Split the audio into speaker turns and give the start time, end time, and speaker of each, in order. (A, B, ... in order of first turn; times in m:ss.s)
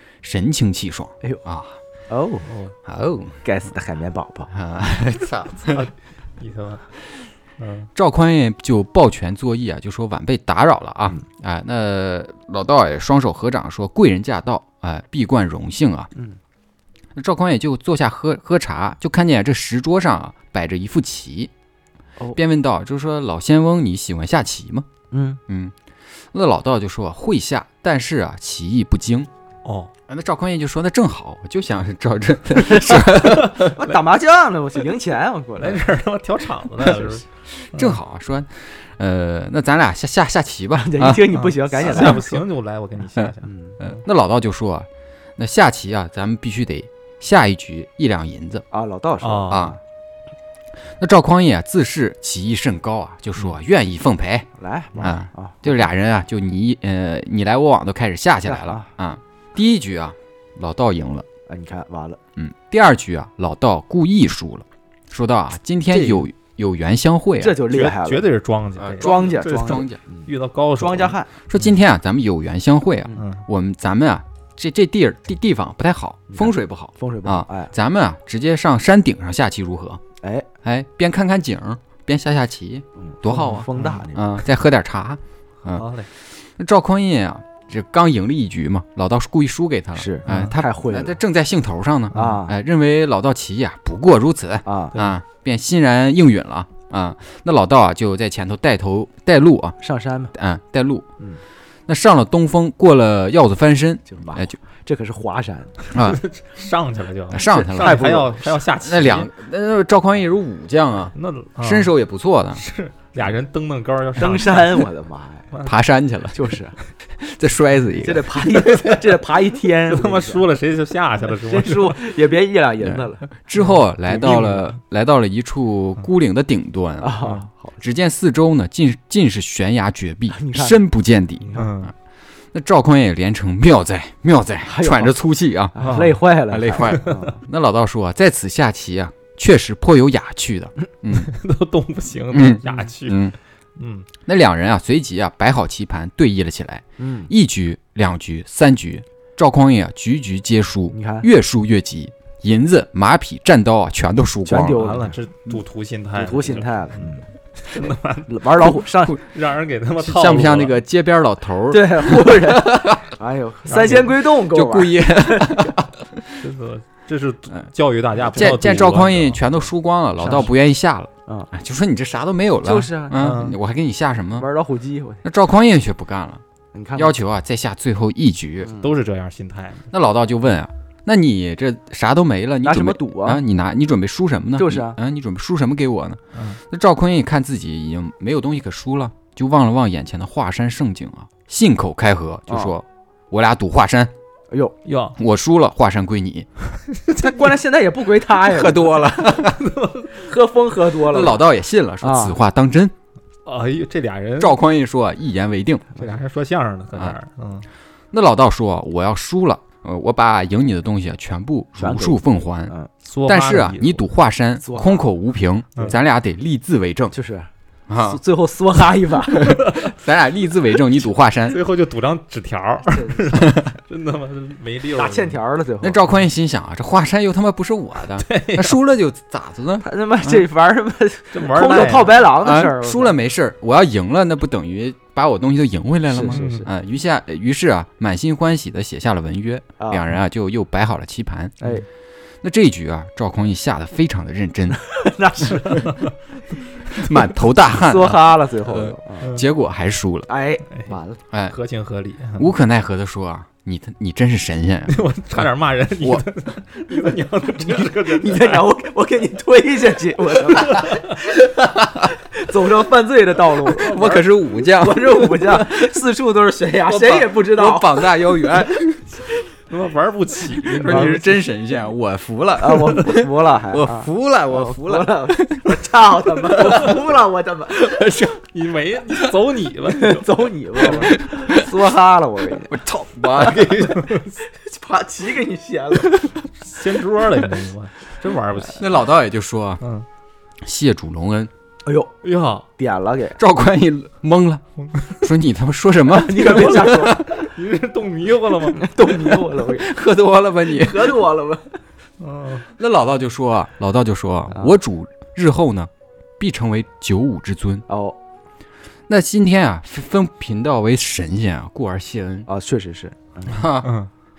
0:00.2-0:01.8 A
0:02.1-0:02.5 B
0:02.5-0:02.7 C
0:02.8-0:03.4 A
0:03.4-0:04.5 B
0:04.5-0:05.9 A
0:05.7-0:06.9 C
0:07.6-0:07.9 C
0:07.9-0:16.1 A
0:17.1-0:21.5 A
0:22.3-0:24.9 A
0:25.1-0:25.4 B
0:25.5-0:25.7 A
0:26.3-0:29.3 A
0:29.6-0:29.9 C
0:30.1-0:33.7 A
0:32.6-0:35.9 B
0:35.6-0:38.0 C
0:37.6-0:41.3 A
0:40.7-0:42.4 B
0:41.3-0:44.0 C
0:43.2-0:48.6 A
0:43.4-0:43.8 B
0:48.7-0:49.8 B
0:49.2-0:49.7 C
0:49.5-0:49.8 A
0:51.0-0:54.5 A
0:54.6-0:55.8 B
0:55.0-1:01.2 A
0:58.4-0:58.9 B
1:01.5-1:02.2 B
1:02.4-1:07.6 A
1:07.4-1:08.3 B
1:07.7-1:11.6 C
1:08.8-1:10.0 A
1:09.0-1:11.3 B
1:11.5-1:20.0 A
1:13.2-1:13.4 C
1:16.3-1:17.7 B
1:20.2-1:20.5 B
1:20.6-1:39.8 A
1:23.0-1:24.3 B
1:23.7-1:24.0 C
1:25.6-1:26.1 C
1:29.9-1:31.2 B
1:30.3-1:30.6 C
1:32.1-1:32.5 B
1:34.6-1:35.0 B
1:39.8-1:40.3 B
1:40.3-1:41.1 A
1:41.9-1:44.6 A
1:44.1-1:45.8 B
1:45.9-1:46.2 A
1:45.9-1:49.3 C
1:47.3-1:52.6 A
1:47.7-1:48.3 B
1:51.1-1:51.9 C
1:52.6-1:54.9 C
1:54.2-1:55.5 B
1:55.5-1:55.8 C
1:55.6-1:56.5 A
1:56.3-1:56.8 B
1:57.1-1:58.4 A
1:58.0-2:00.5 B
1:58.7-1:59.0 C
1:59.8-2:02.0 C
2:01.4-2:03.2 B
2:02.8-2:07.3 A
2:03.5-2:04.7 C
2:07.0-2:07.8 B
2:07.8-2:11.9 A
2:10.3-2:10.8 B
2:11.4-2:11.7 B
2:11.5-2:11.9 C
2:12.5-2:21.3 A
2:14.6-2:15.2 B
2:15.7-2:17.4 B
2:15.8-2:16.2 C
2:16.8-2:17.2 C
2:21.1-2:24.1 C
2:22.3-2:23.4 A
2:24.2-2:34.9 A
2:27.0-2:27.3 B
2:30.9-2:31.3 B
2:34.4-2:35.2 B
2:34.8-2:40.8 C
2:36.2-2:37.2 B
2:38.3-2:39.2 B
2:40.0-2:43.1 A
2:41.7-2:45.7 B
2:43.7-2:44.1 C
2:43.9-2:46.4 A
2:46.4-2:49.5 C
2:48.3-2:54.5 A
2:50.2-2:50.5 B
2:51.2-2:51.5 B
2:52.6-2:53.3 B
2:53.1-2:53.6 C
2:54.4-2:55.2 B
2:55.2-2:56.4 A
2:56.7-2:57.2 B
2:57.0-2:58.7 A
2:58.6-2:58.9 B
2:58.8-2:59.9 C
2:59.9-3:14.1 A
3:02.6-3:03.4 B
3:04.6-3:05.0 B
3:06.3-3:06.6 C
3:12.5-3:12.7 B
3:14.5-3:14.8 B
3:14.8-3:15.2 C
3:15.2-3:16.5 A
3:16.9-3:17.5 C
3:17.1-3:19.1 B
3:18.4-3:19.7 A
3:19.4-3:20.2 C
3:20.1-3:21.4 B
3:21.0-3:22.9 A
3:22.0-3:22.4 B
3:23.4-3:24.6 C
3:24.4-3:25.8 A
3:26.0-3:27.7 C
3:28.1-3:32.7 A
3:31.8-3:32.9 B
3:33.0-3:34.0 C
3:33.2-3:37.1 A
3:34.6-3:35.1 B
3:37.1-3:39.6 B
3:37.9-3:38.2 A
3:39.4-3:41.6 A
3:41.5-3:45.4 C
3:42.9-3:43.4 B
3:43.4-3:43.7 A
3:44.9-3:46.1 B
3:45.8-3:50.4 A
3:48.2-3:48.8 C
3:49.8-3:53.2 B
3:51.3-3:52.2 C
3:52.4-4:01.6 A
3:56.1-3:56.7 B
3:56.3-3:56.7 C
3:59.8-4:00.1 B
4:02.4-4:04.8 A
4:04.7-4:06.0 B
4:05.7-4:06.1 C
4:06.9-4:10.3 A
4:07.7-4:09.3 B
4:10.3-4:11.2 B
4:11.5-4:12.5 C
4:12.4-4:15.0 A
4:14.9-4:18.7 C
4:17.6-4:21.3 B
4:22.0-4:28.1 B
4:23.7-4:25.9 A
4:26.8-4:29.2 A
4:29.7-4:31.4 C
4:30.7-4:35.8 A
4:30.8-4:31.2 B
4:32.6-4:38.1 B
4:36.4-4:37.0 A
4:37.7-4:38.4 A
4:38.4-4:40.4 C
4:39.9-4:42.8 B
4:40.8-4:41.7 A
4:42.7-4:44.0 A
4:43.4-4:44.3 C
4:43.4-4:46.3 B
4:46.6-4:49.0 C
4:48.7-4:49.8 A
4:49.8-4:50.0 C
4:50.6-4:51.5 A
4:51.8-4:52.1 B
4:52.2-4:52.7 C
4:52.8-4:53.4 B
4:53.4-4:57.2 A
4:56.1-4:57.4 B
4:56.4-4:58.9 C
4:58.7-4:59.9 B
4:59.2-5:01.2 A
5:00.7-5:01.8 B
5:02.2-5:02.7 C
5:02.8-5:07.8 A
5:04.5-5:04.7 B
5:07.9-5:08.2 B
5:09.1-5:12.5 A
5:12.5-5:13.6 B
5:13.5-5:13.9 A
5:13.8-5:14.1 C